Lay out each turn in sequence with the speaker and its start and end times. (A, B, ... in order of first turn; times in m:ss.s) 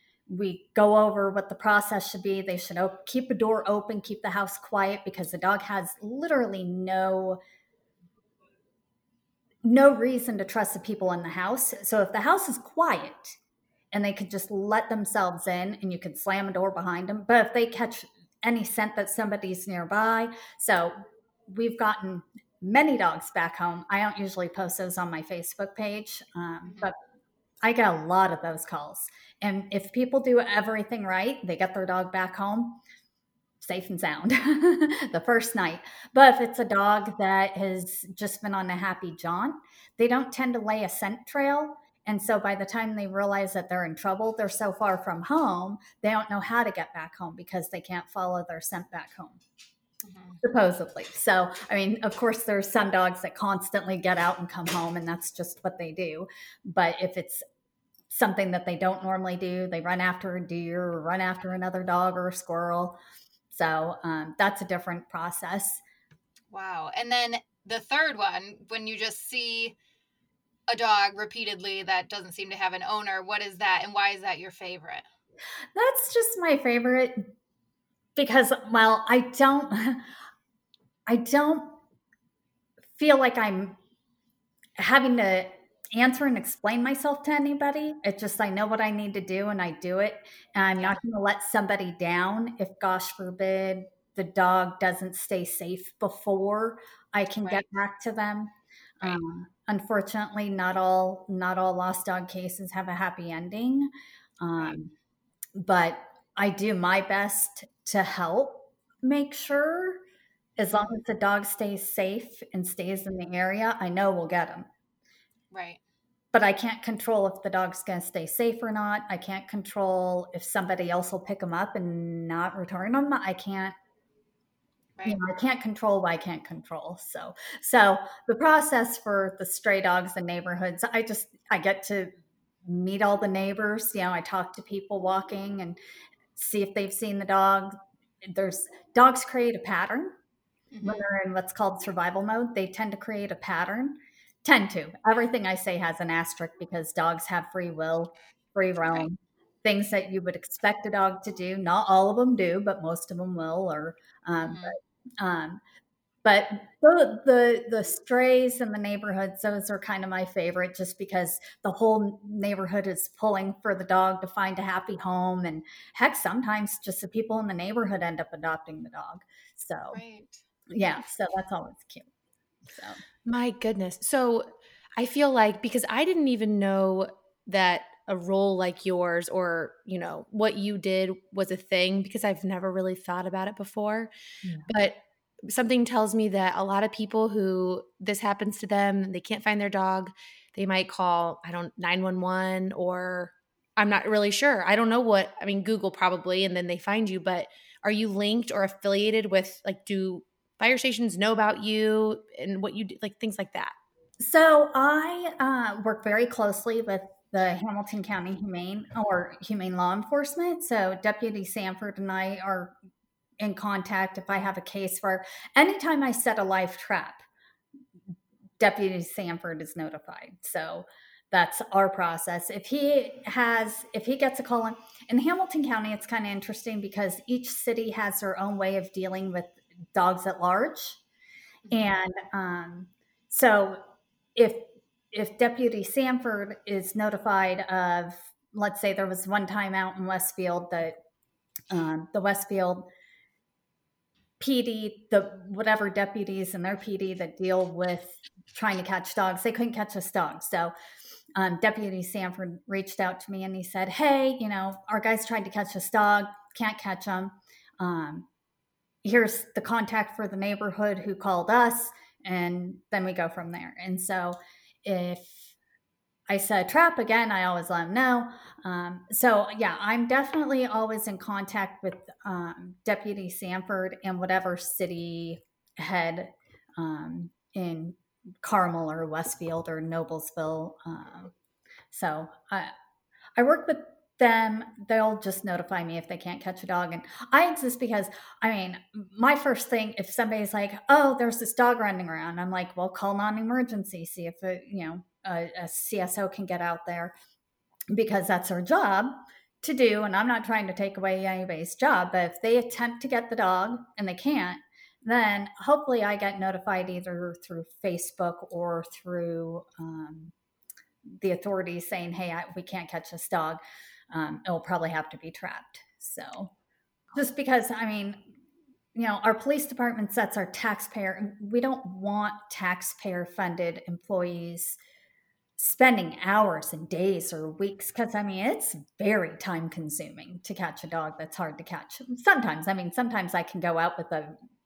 0:00.3-0:07.4 A
0:09.6-0:13.4 A
0:13.9-0:27.0 A
0:27.6-0:32.8 A
0:33.6-0:49.4 A
0:50.0-0:50.4 B
0:50.4-0:57.4 A
0:58.1-1:03.0 A
1:03.5-1:05.8 A
1:06.5-1:09.8 B
1:10.7-1:15.0 B
1:15.8-1:17.3 A
1:18.2-1:20.0 A
1:21.1-1:21.8 A
1:23.0-1:23.8 A
1:24.8-1:44.9 A
1:45.6-1:50.0 A
1:50.6-1:54.7 A
1:55.5-1:55.8 B
1:56.3-2:03.8 A
2:05.1-2:12.1 A
2:12.6-2:15.8 A
2:16.4-2:20.2 A
2:20.7-2:21.1 B
2:20.8-2:35.6 A
2:34.4-2:34.8 B
2:36.2-2:50.0 A
2:49.9-2:50.4 B
2:50.7-2:52.1 A
2:52.7-2:53.0 A
2:53.3-3:04.1 C
3:04.4-3:04.7 A
3:04.7-3:23.8 C
3:24.2-3:32.8 A
3:33.4-3:37.2 A
3:38.6-3:51.0 A
3:51.7-3:53.8 A
3:54.4-4:01.0 A
4:01.7-4:02.9 A
4:04.4-4:10.7 A
4:11.4-4:18.3 A
4:19.0-4:25.5 A
4:26.3-4:41.3 A
4:41.9-4:42.7 A
4:43.4-4:57.1 A
4:57.9-5:10.3 A
5:11.2-5:16.5 A
5:17.1-5:18.2 A
5:19.0-5:24.8 A
5:25.6-5:34.4 A